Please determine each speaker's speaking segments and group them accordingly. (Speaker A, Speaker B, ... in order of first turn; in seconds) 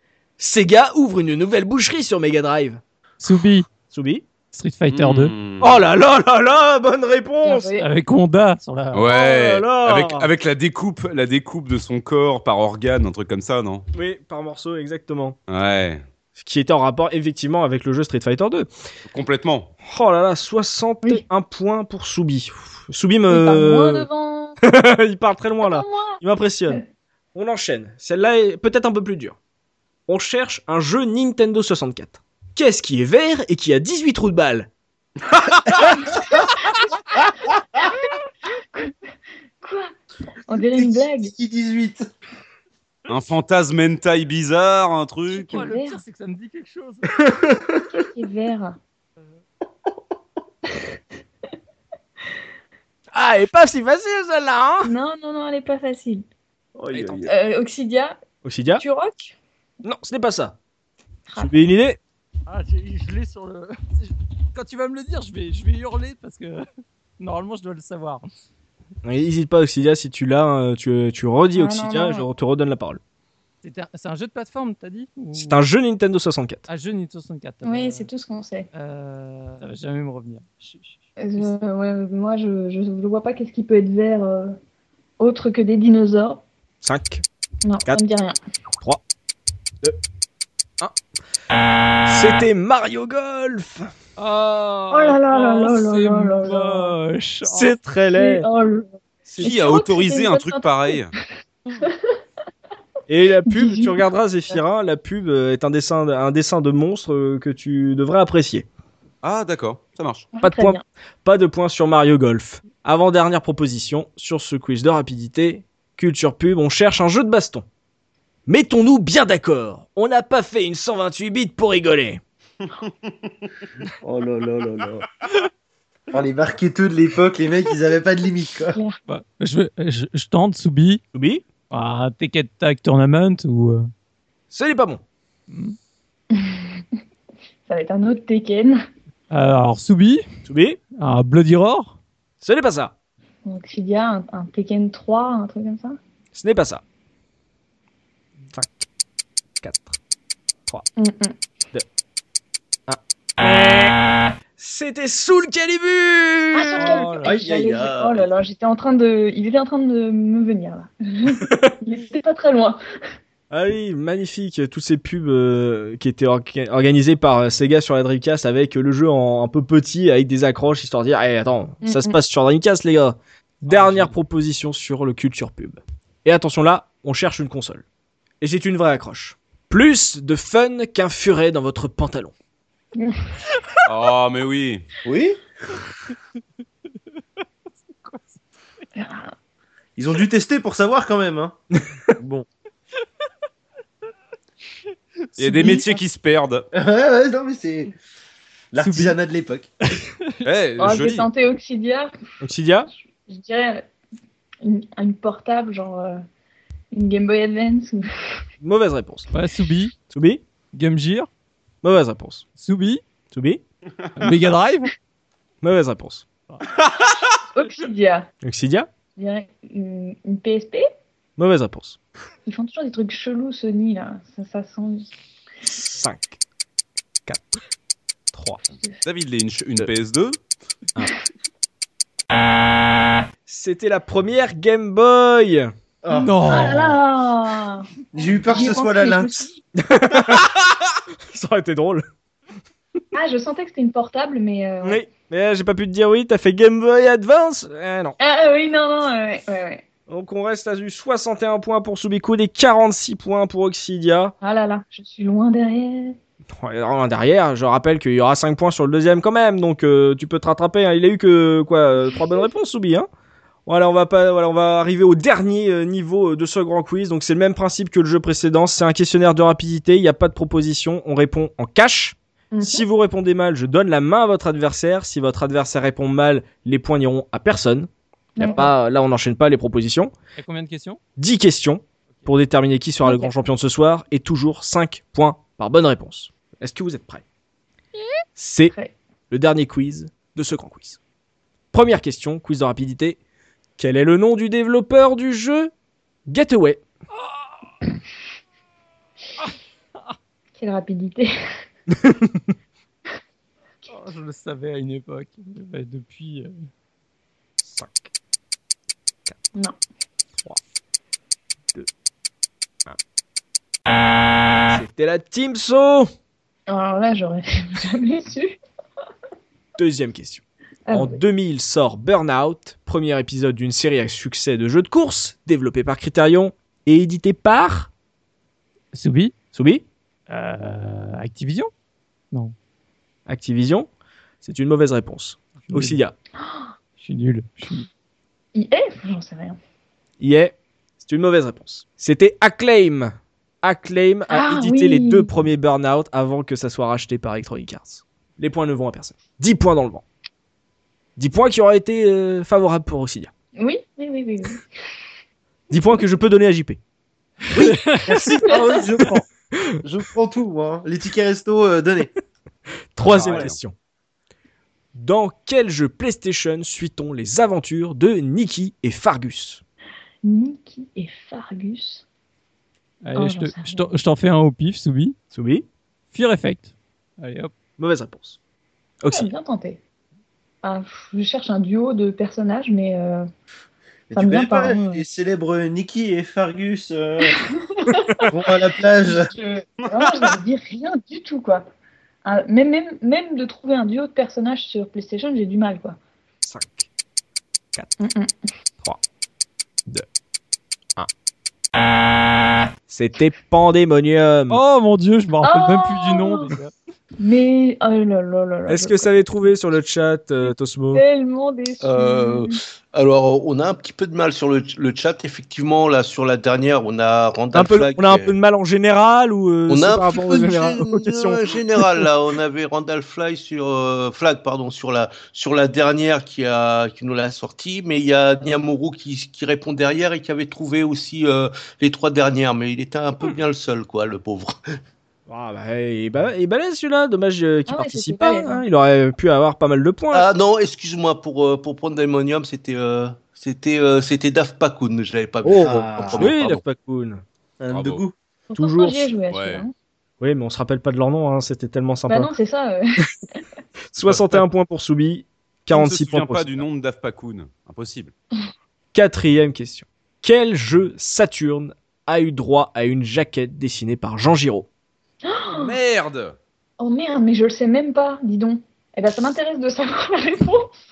Speaker A: 0.4-2.8, 3.8-4.3, 5.6-7.7, 9.1-10.3, 13.9-15.4, 16.4-18.7, 19.9-24.1, 24.6-26.8, 27.4-29.4, 30.1-34.7, 53.1-54.9, 57.0-57.2, 58.4-58.8, 59.8-60.6, 61.4-62.0, 69.0-73.0, 75.3-76.7, 86.8-87.2, 92.0-93.9, 97.4-98.5, 99.3-99.6, 103.1-108.7, 110.4-117.7, 118.5-122.2, 131.1-131.4, 134.5-135.0, 140.4-140.8, 142.4-142.9, 146.3-146.8, 148.5-148.9, 149.6-150.0, 152.9-153.9, 154.6-157.2, 161.4-161.7, 163.5-177.8, 178.4-182.3, 202.4-202.9, 208.6-209.3, 210.1-210.4, 211.8-212.5, 213.3-213.6, 215.6-216.3, 218.4-218.9, 221.4-222.0, 225.7-226.4, 227.3-227.6, 228.3-228.6, 233.5-235.7, 239.8-240.5, 241.3-242.1, 244.8-248.2, 250.1-254.3, 256.6-263.1, 263.7-280.1, 281.2-287.2, 288.4-288.7, 289.3-291.0, 291.7-293.2, 293.8-295.7, 296.3-296.8, 301.9-302.5, 307.6-308.1, 314.7-316.1, 319.8-327.9, 329.5-329.9, 333.3-333.9, 334.4-336.1, 340.2-350.1, 351.2-353.3, 355.7-356.8, 357.5-358.6, 362.9-363.8, 364.9-369.6, 375.3-375.7, 377.8-378.4, 379.0-379.3, 396.4-396.9, 402.9-404.6, 408.7-411.0, 417.5-422.1, 435.3-440.3, 445.4-447.2, 448.6-449.1, 450.2-452.3, 453.9-456.7, 458.9-464.7
Speaker B: 3.2-3.7, 4.5-5.3, 7.8-9.1, 45.3-47.3, 62.5-66.7, 67.2-68.2, 73.6-75.6, 76.7-78.1, 78.7-81.5, 94.2-97.8, 129.1-131.0, 131.7-133.9, 135.5-135.8, 139.3-140.3, 141.0-142.0, 156.8-157.2, 173.6-174.1, 187.9-188.3, 195.4-195.9, 198.8-199.2, 209.3-209.9, 210.7-211.3, 212.6-213.0, 214.2-214.9, 236.2-236.9, 280.4-281.0, 299.4-300.1, 303.9-306.5, 328.9-329.3, 330.3-331.7, 335.6-336.0, 337.0-337.9, 357.6-358.2, 373.0-375.2, 376.1-377.5, 404.5-406.7
Speaker C: 4.9-5.9, 8.9-13.9, 15.5-16.0, 19.1-19.7, 43.1-45.7, 99.4-101.1, 109.2-110.3, 183.8-184.9, 195.4-196.7, 200.4-201.3, 214.0-214.4, 216.7-217.2, 229.0-230.4, 363.1-363.6, 447.7-448.0, 449.3-449.6, 454.0-454.4, 455.7-458.1, 465.4-466.4
Speaker D: 7.4-7.9, 23.3-24.6, 25.6-26.8, 36.0-36.4, 37.8-39.0, 39.6-39.9, 40.5-41.3, 45.5-46.0, 47.9-48.8, 54.9-56.2, 57.3-58.2, 58.8-59.4, 61.3-61.6, 71.5-72.2, 77.6-78.7, 81.2-84.6, 85.2-86.4, 87.6-88.4, 94.9-97.0, 98.1-101.0, 103.5-104.6, 110.3-110.8, 136.3-136.8, 137.7-138.8, 143.5-146.0, 151.0-151.4, 156.5-162.8, 171.8-172.2, 189.0-189.3, 200.8-202.1, 202.9-203.9, 204.6-206.2, 206.9-208.4, 217.5-218.3, 219.2-220.9, 222.5-225.1, 236.2-237.9, 238.4-239.6, 243.1-245.0, 248.2-249.8, 254.4-256.2, 272.5-272.8, 278.4-278.7, 283.0-283.3, 300.6-301.3, 316.7-318.6, 320.9-321.2, 336.4-336.7, 338.6-339.6, 344.3-345.3, 353.6-354.7, 370.2-372.0, 373.2-373.9, 379.1-379.8, 380.6-383.3, 384.2-385.0, 387.3-388.2, 389.0-391.6, 392.2-396.0, 398.0-398.5, 405.4-406.5, 407.2-409.3, 410.9-412.6, 437.7-438.6, 448.5-449.7, 452.1-453.0, 465.3-465.7, 466.8-470.8
Speaker E: 40.6-42.1, 56.8-57.3, 124.0-125.1, 126.1-128.8, 185.1-185.4, 190.0-191.6, 192.2-192.5, 196.7-197.9, 198.7-199.7, 236.0-236.9, 238.1-239.5, 357.6-359.2, 359.8-362.1, 363.1-363.5, 384.1-387.4, 388.2-389.3, 445.6-446.3, 447.6-448.1
Speaker F: 157.2-158.3, 411.8-418.4, 419.7-434.6, 440.1-446.6